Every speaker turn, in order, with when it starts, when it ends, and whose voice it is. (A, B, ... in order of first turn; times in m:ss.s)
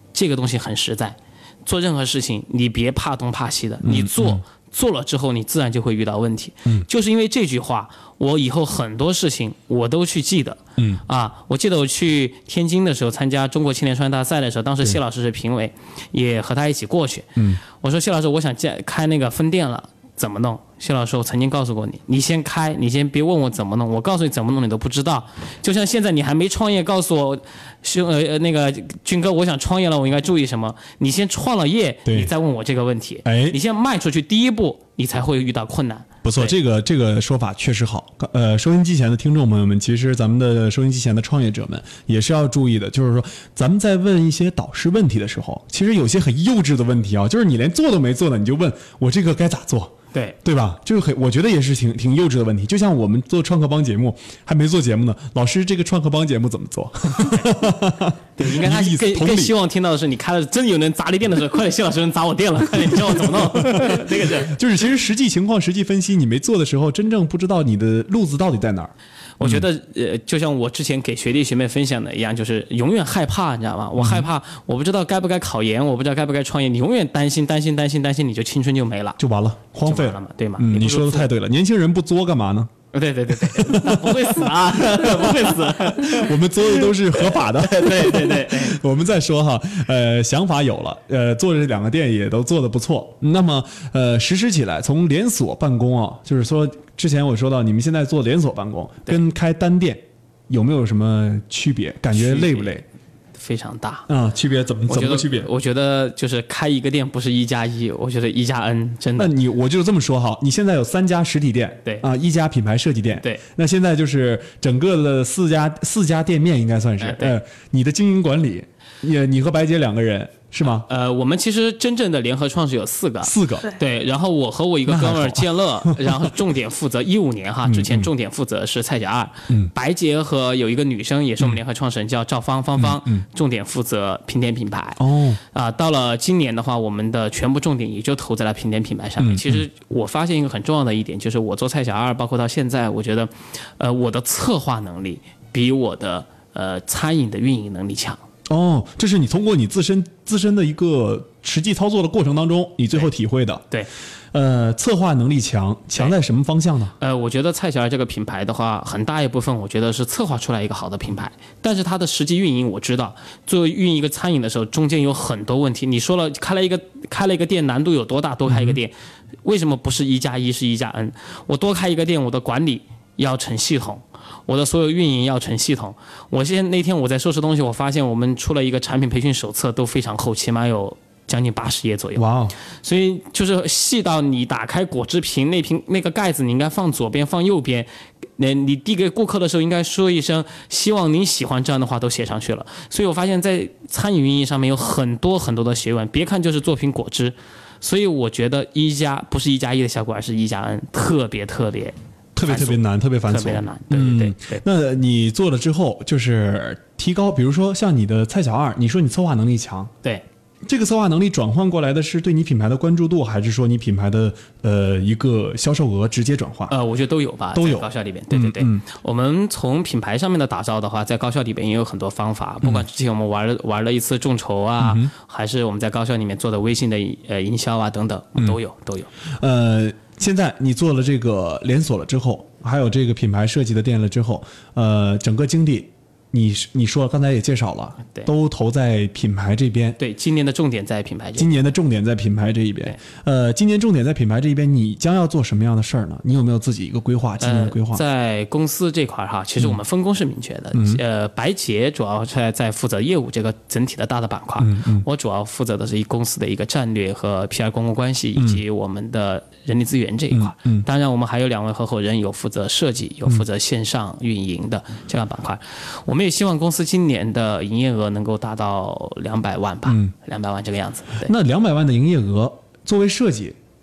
0:00.1-0:36.5 A
0:03.8-0:04.4 B
0:32.1-0:32.3 B
0:33.2-0:33.6 B
0:36.2-0:59.6 B
0:58.4-1:04.6 A
1:03.1-1:09.6 B
1:09.4-1:19.2 A
1:14.0-1:14.3 B
1:19.2-1:22.7 B
1:19.8-1:21.3 A
1:22.9-1:28.8 A
1:23.3-1:42.8 B
1:42.1-1:42.8 A
1:43.4-1:44.1 A
1:44.1-1:45.5 B
1:44.9-1:49.3 A
1:49.2-2:00.9 B
1:57.0-1:57.4 A
2:00.6-2:15.0 A
2:03.2-2:03.7 B
2:04.9-2:06.3 B
2:07.6-2:08.1 B
2:12.8-2:13.3 B
2:15.0-2:15.4 B
2:15.5-2:28.2 A
2:19.2-2:19.6 B
2:28.5-2:33.6 B
2:34.3-2:37.0 B
2:37.0-3:02.3 A
2:48.5-2:48.8 B
3:02.2-3:02.6 B
3:02.8-3:24.6 A
3:22.4-3:29.9 B
3:30.6-3:36.7 B
3:36.7-3:49.1 A
3:37.5-3:38.8 B
3:44.8-3:45.1 B
3:49.4-4:00.0 B
4:00.0-4:01.5 A
4:01.4-4:08.0 B
4:07.4-4:31.3 A
4:10.7-4:11.0 B
4:14.6-4:15.1 B
4:18.4-4:18.6 B
4:20.3-4:20.9 B
4:29.9-4:30.1 B
4:31.2-4:33.6 B